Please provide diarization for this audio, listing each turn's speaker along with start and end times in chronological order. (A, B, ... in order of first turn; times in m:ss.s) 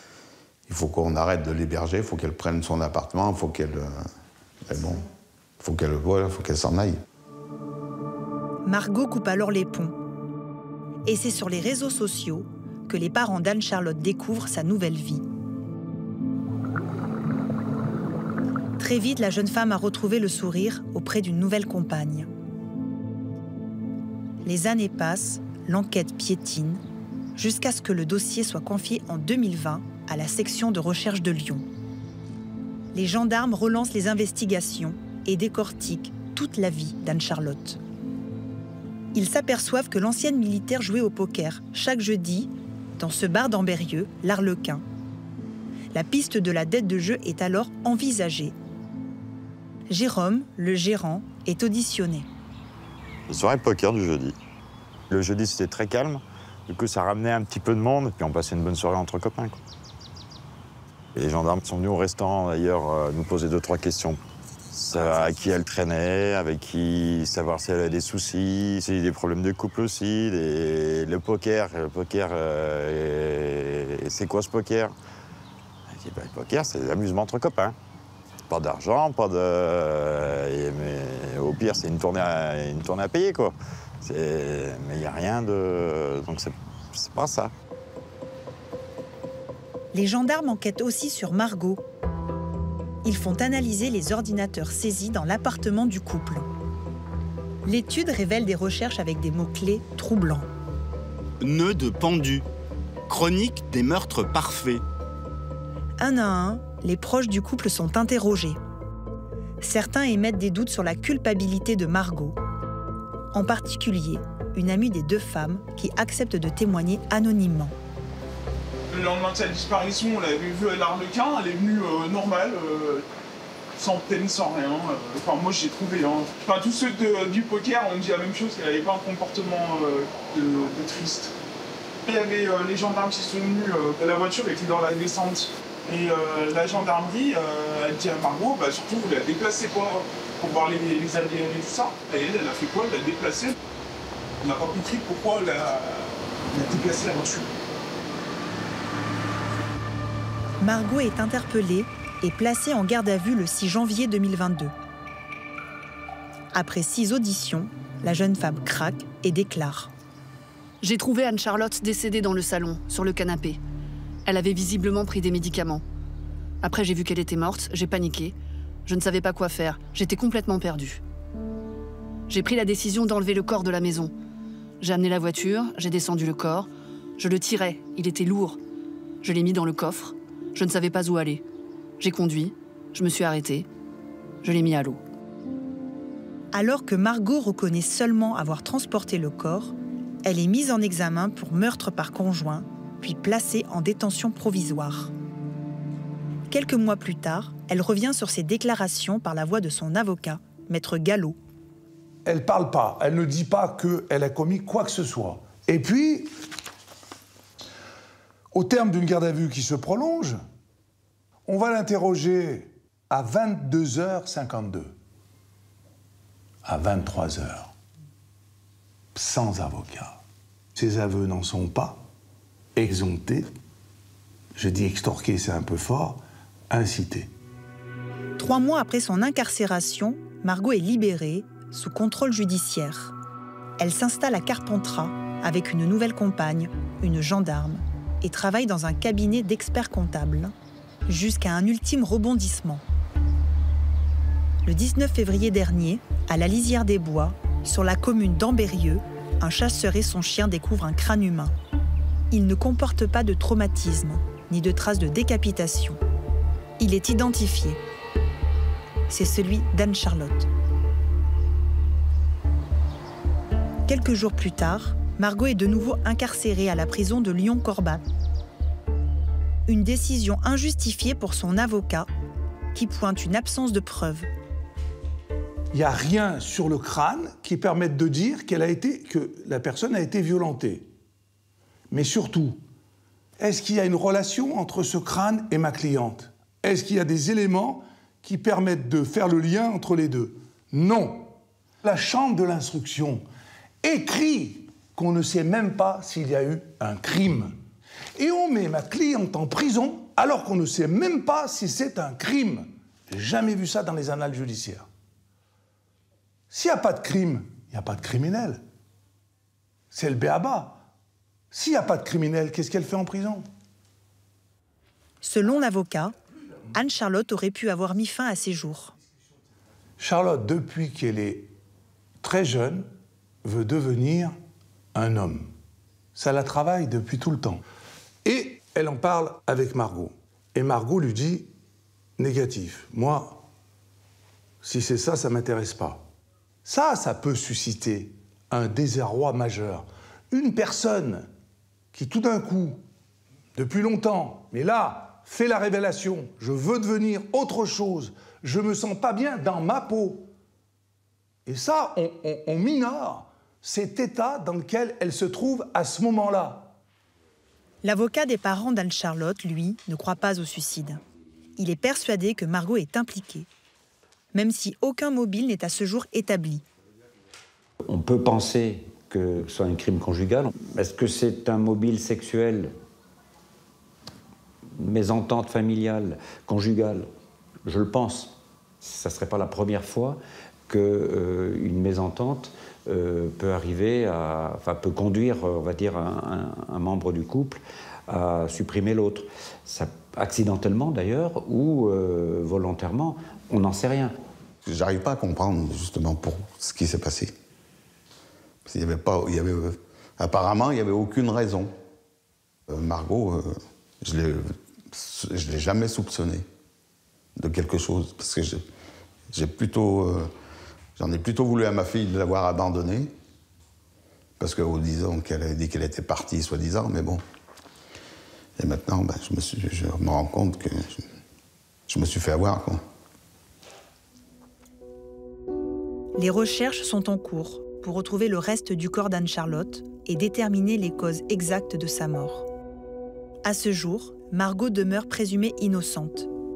0:00.7-0:03.9 A
0:04.6-0:05.1 A
0:05.6-0:07.0 A
0:08.6-0:10.0 B
0:11.0-0:15.2 B
0:18.8-0:22.3 B
0:24.4-0:26.8 B
0:27.4-0:31.6 B
0:32.9-0:37.8 B
0:39.1-0:44.8 B
0:45.9-0:48.6 B
0:49.9-0:52.3 B
0:53.3-0:54.4 C
0:55.1-0:59.6 C
1:01.2-1:04.2 C
1:04.7-1:15.0 C
1:15.9-1:17.8 C
1:18.5-1:27.5 C
1:29.9-1:31.8 B
1:33.0-1:36.5 B
1:37.7-1:40.5 B
1:41.4-1:42.4 D
1:43.1-1:44.8 D
1:46.0-1:48.6 B
1:49.6-1:52.4 B
1:53.3-1:57.8 B
1:58.9-2:03.1 E
2:03.8-2:11.4 E
2:12.0-2:23.6 E
2:24.4-2:27.5 E
2:30.6-2:34.7 B
2:36.5-2:39.9 B
2:40.8-2:43.6 F
2:44.3-2:45.8 F
2:46.6-2:48.4 F
2:48.9-2:51.0 F
2:52.3-2:54.1 F
2:54.8-2:58.6 F
2:59.2-3:01.4 F
3:02.0-3:03.7 F
3:04.4-3:05.0 F
3:06.5-3:15.1 B
3:16.5-3:21.4 B
3:22.2-3:26.3 G
3:28.5-3:30.4 G
3:31.5-3:35.0 G
3:36.6-3:37.7 G
3:39.2-3:40.2 G
3:40.8-3:42.0 G
3:42.8-3:43.5 G
3:44.6-3:47.3 G
3:48.4-3:53.1 B
3:53.8-4:00.5 B
4:01.1-4:02.8 B
4:04.6-4:11.5 B
4:12.3-4:16.0 B
4:16.8-4:17.8 B
4:19.1-4:20.5 B
4:23.9-4:28.0 B
4:29.7-4:32.1 B
4:32.7-4:34.3 B
4:35.7-4:40.9 G
4:41.9-4:42.6 G
4:43.4-4:51.3 G
4:51.8-4:53.2 G
4:53.8-4:57.6 G
4:58.2-5:04.9 G
5:06.5-5:08.6 G
5:09.9-5:10.8 G
5:11.5-5:13.5 G
5:15.2-5:16.1 B
5:16.8-5:18.9 B
5:20.0-5:21.5 G
5:22.2-5:22.9 G
5:23.4-5:24.4 G
5:24.9-5:25.5 G
5:26.2-5:27.6 G
5:28.2-5:31.5 G
5:32.2-5:33.4 G
5:34.6-5:36.0 G
5:36.6-5:41.3 G
5:41.9-5:42.8 G
5:43.6-5:50.3 G
5:51.5-5:56.7 G
5:57.8-6:01.0 B
6:01.6-6:03.5 B
6:04.3-6:06.6 B
6:07.8-6:12.7 H
6:14.8-6:17.1 H
6:17.6-6:34.1 H
6:34.6-6:37.3 A
6:38.6-6:41.7 A
6:42.7-6:46.4 A
6:47.4-6:48.6 A
6:49.3-6:50.3 A
6:51.0-6:53.1 A
6:54.4-6:57.2 A
6:58.6-7:01.0 A
7:01.9-7:02.8 A
7:06.2-7:12.5 B
7:13.4-7:16.3 B